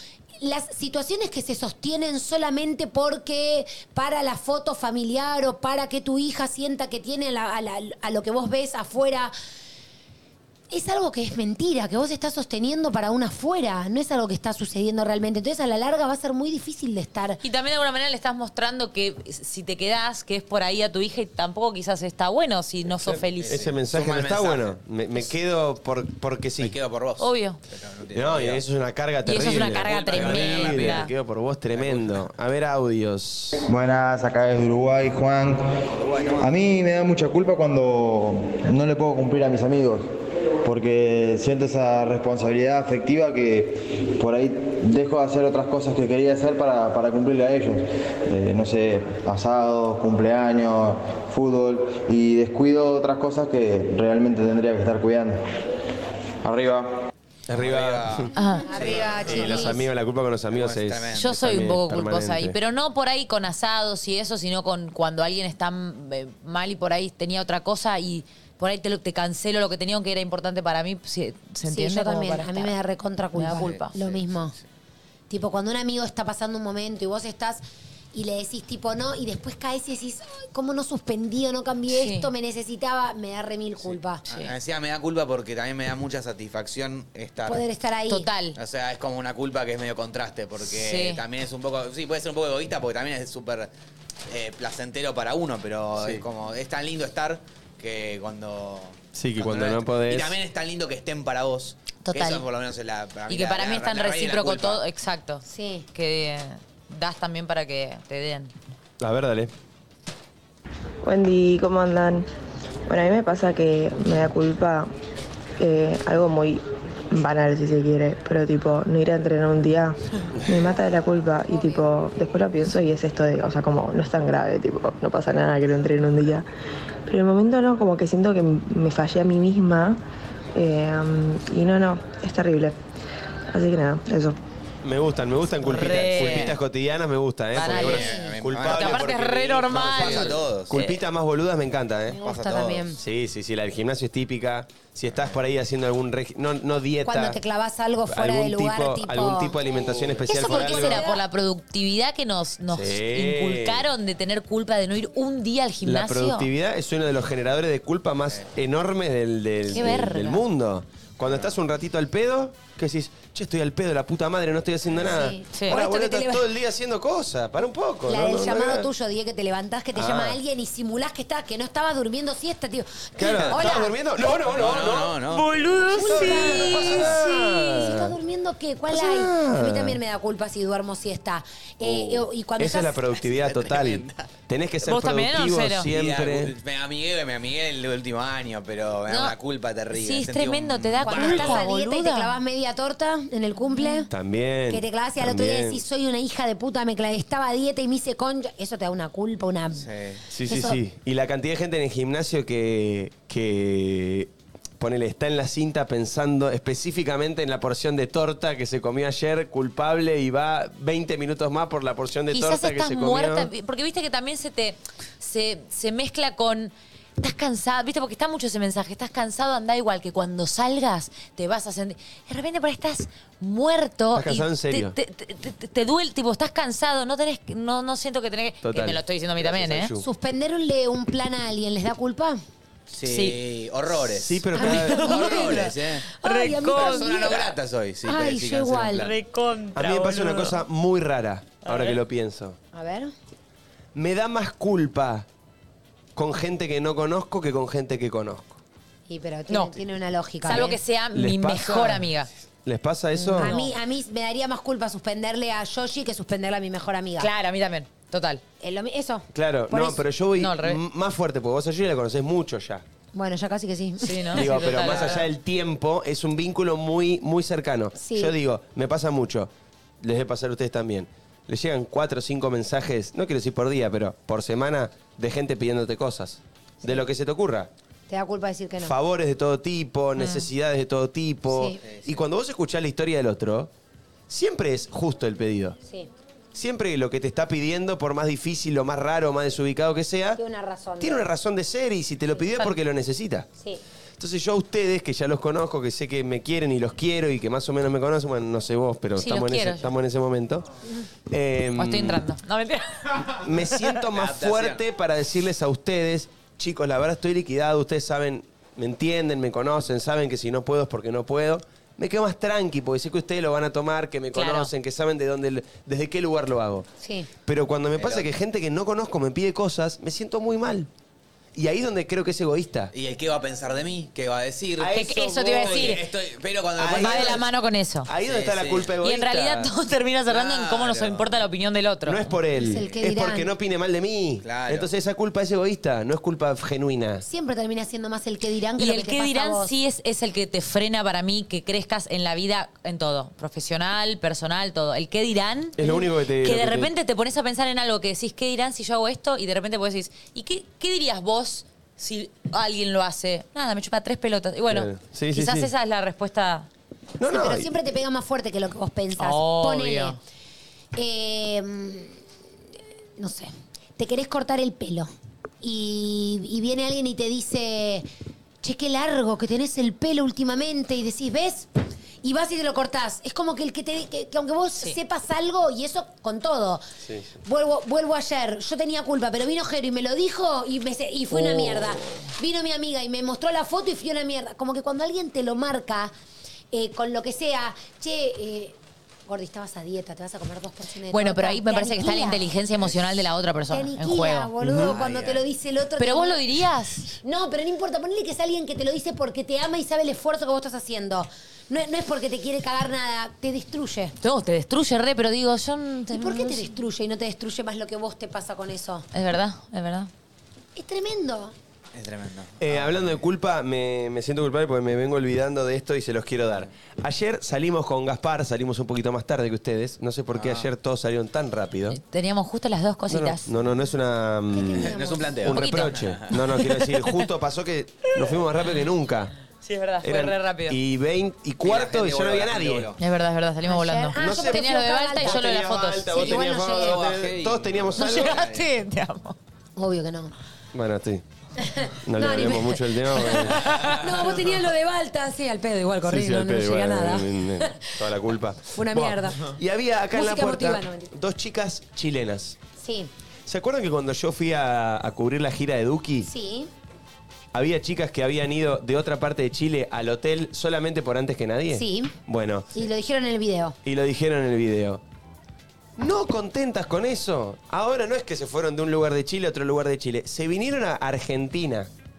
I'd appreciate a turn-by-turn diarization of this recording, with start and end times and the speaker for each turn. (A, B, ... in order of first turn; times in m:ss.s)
0:00.4-0:09.3 A
0:10.7-0:17.4 A
0:17.4-0:23.6 B
0:23.4-0:25.3 C
0:23.5-0:26.8 D
0:26.6-0:28.6 C
0:27.2-0:27.6 B
0:28.1-0:33.6 D
0:29.2-0:31.1 B
0:29.9-0:31.0 C
0:31.7-0:32.2 C
0:33.7-0:35.7 E
0:36.0-0:36.4 C
0:36.4-0:40.1 E
0:40.6-0:55.4 E
0:56.4-0:57.0 E
0:57.5-0:58.3 D
0:57.5-0:59.7 C
0:58.4-0:58.7 B
0:58.7-0:59.8 A
0:58.8-1:02.6 D
1:00.5-1:01.3 C
1:01.2-1:12.8 B
1:11.6-1:14.6 A
1:13.3-1:13.9 B
1:13.8-1:14.5 C
1:15.3-1:17.6 A
1:18.1-1:24.2 A
1:21.9-1:22.3 B
1:23.8-1:27.7 C
1:24.3-1:24.5 B
1:27.5-1:28.3 A
1:28.1-1:28.6 B
1:28.6-1:33.7 C
1:30.6-1:31.2 B
1:34.3-1:44.8 C
1:36.0-1:36.2 D
1:39.1-1:40.4 D
1:42.0-1:42.4 B
1:43.3-1:45.4 B
1:45.4-1:45.9 A
1:45.9-1:48.5 B
1:49.0-1:49.5 D
1:51.0-1:52.3 F
1:52.9-1:54.9 F
1:55.6-2:06.5 F
2:07.1-2:10.0 F
2:10.6-2:12.8 F
2:13.5-2:14.4 F
2:14.8-2:19.1 D
2:15.6-2:16.6 B
2:17.5-2:18.1 B
2:17.6-2:20.8 C
2:18.7-2:20.9 B
2:19.7-2:22.2 D
2:22.1-2:23.0 A
2:22.2-2:23.0 C
2:23.0-2:27.4 D
2:27.0-2:31.2 A
2:28.1-2:31.1 D
2:30.3-2:36.5 B
2:32.7-2:33.9 D
2:35.8-2:48.9 D
2:39.7-2:40.4 B
2:39.8-2:40.2 A
2:41.2-2:41.5 C
2:45.0-2:46.4 A
2:45.5-2:45.8 B
2:48.1-2:54.0 A
2:49.9-2:50.4 D
2:53.2-2:58.2 D
2:54.5-2:55.4 C
2:55.3-2:57.1 B
2:55.9-3:03.0 A
2:58.9-3:00.0 D
3:01.8-3:06.5 D
3:03.2-3:04.3 C
3:04.8-3:05.9 B
3:05.9-3:11.6 C
3:09.1-3:09.3 B
3:09.9-3:12.4 B
3:11.0-3:14.1 A
3:13.8-3:14.0 B
3:14.1-3:15.8 D
3:14.7-3:19.9 A
3:19.7-3:20.2 C
3:20.3-3:33.5 D
3:20.5-3:20.8 A
3:32.3-3:49.9 B
3:44.1-3:45.0 D
3:48.6-3:50.1 D
3:50.0-3:52.4 A
3:52.9-3:56.1 C
3:53.0-3:53.4 B
3:54.2-3:55.2 D
3:54.6-3:57.5 A
3:54.6-3:55.6 B
3:56.2-3:57.4 B
3:56.6-3:59.1 C
3:58.0-3:59.1 A
3:59.0-4:00.6 B
3:59.7-4:02.6 D
4:01.6-4:02.0 B
4:02.7-4:03.1 A
4:04.0-4:05.3 D
4:06.2-4:08.6 D
4:09.1-4:10.8 A
4:09.5-4:09.8 B
4:10.4-4:12.3 B
4:10.6-4:12.1 D
4:12.6-4:13.6 D
4:13.2-4:13.7 B
4:13.3-4:17.3 A
4:17.2-4:18.4 B
4:18.6-4:20.0 A
4:19.3-4:22.8 D
4:20.4-4:20.8 B
4:23.1-4:24.8 A
4:24.0-4:25.3 B
4:24.3-4:29.5 D
4:28.0-4:28.3 A
4:30.0-4:37.7 D
4:38.1-4:38.9 A
4:38.8-4:43.7 D
4:40.2-4:40.5 B
4:41.5-4:41.8 A
4:44.3-4:45.8 D
4:46.5-4:50.4 D
4:50.4-4:51.2 A
4:51.0-4:53.5 D
4:54.2-5:00.7 D
4:59.2-4:59.9 B
5:01.3-5:02.3 D
5:01.8-5:03.4 B
5:03.4-5:16.9 D
5:04.2-5:04.8 C
5:14.3-5:14.7 B
5:17.0-5:17.3 A
5:17.5-5:20.9 D
5:18.0-5:18.3 C
5:21.6-5:22.9 D
5:22.9-5:27.4 C
5:24.8-5:26.0 D
5:24.9-5:26.0 B
5:26.8-5:27.5 D
5:26.9-5:28.1 B
5:28.0-5:29.7 D
5:28.2-5:28.9 C
5:29.0-5:32.3 B
5:30.3-5:31.3 C
5:32.1-5:37.2 D
5:32.6-5:33.5 A
5:32.6-5:33.0 C
5:34.4-5:34.9 C
5:37.2-5:39.7 A
5:38.8-5:56.7 B
5:45.8-5:46.9 D
5:54.7-5:55.7 D
5:57.2-5:57.7 D
5:57.2-6:00.2 A
5:59.2-6:00.2 B
6:01.0-6:02.2 A
6:03.2-6:05.1 A
6:05.6-6:08.1 A
6:08.6-6:11.7 A
6:12.2-6:16.8 A
6:17.0-6:17.3 D
6:17.4-6:26.1 A
6:21.3-6:22.3 B
6:26.7-6:28.8 A
6:29.3-6:32.5 A
6:31.1-6:34.5 B
6:33.7-6:36.4 A
6:34.6-6:35.4 C
6:36.0-6:37.1 B
6:37.2-6:44.2 A
6:44.2-6:46.8 B
6:46.1-6:49.1 A
6:49.1-6:50.1 B
6:50.8-6:51.6 A
6:51.9-6:53.2 C
6:52.6-7:02.0 D
7:00.3-7:00.7 C
7:01.9-7:03.5 B
7:03.1-7:09.3 D
7:04.6-7:05.6 A
7:04.7-7:06.3 C
7:05.6-7:07.2 B
7:09.6-7:10.8 B
7:10.0-7:12.9 D
7:11.6-7:13.0 C
7:13.0-7:16.4 B
7:13.6-7:17.0 A
7:14.2-7:18.4 D
7:16.6-7:18.7 C
7:18.0-7:19.4 B
7:19.8-7:20.3 A
7:20.7-7:21.2 D
7:21.6-7:27.4 A
7:22.0-7:23.8 D
7:26.0-7:32.6 D
7:28.7-7:29.6 A
7:30.1-7:31.1 A
7:32.8-7:33.1 A
7:33.5-7:36.3 D
7:36.2-7:36.7 A
7:37.5-7:42.7 D
7:41.7-7:42.1 A
7:42.7-7:43.8 A
7:43.8-7:45.0 D
7:46.0-7:51.9 D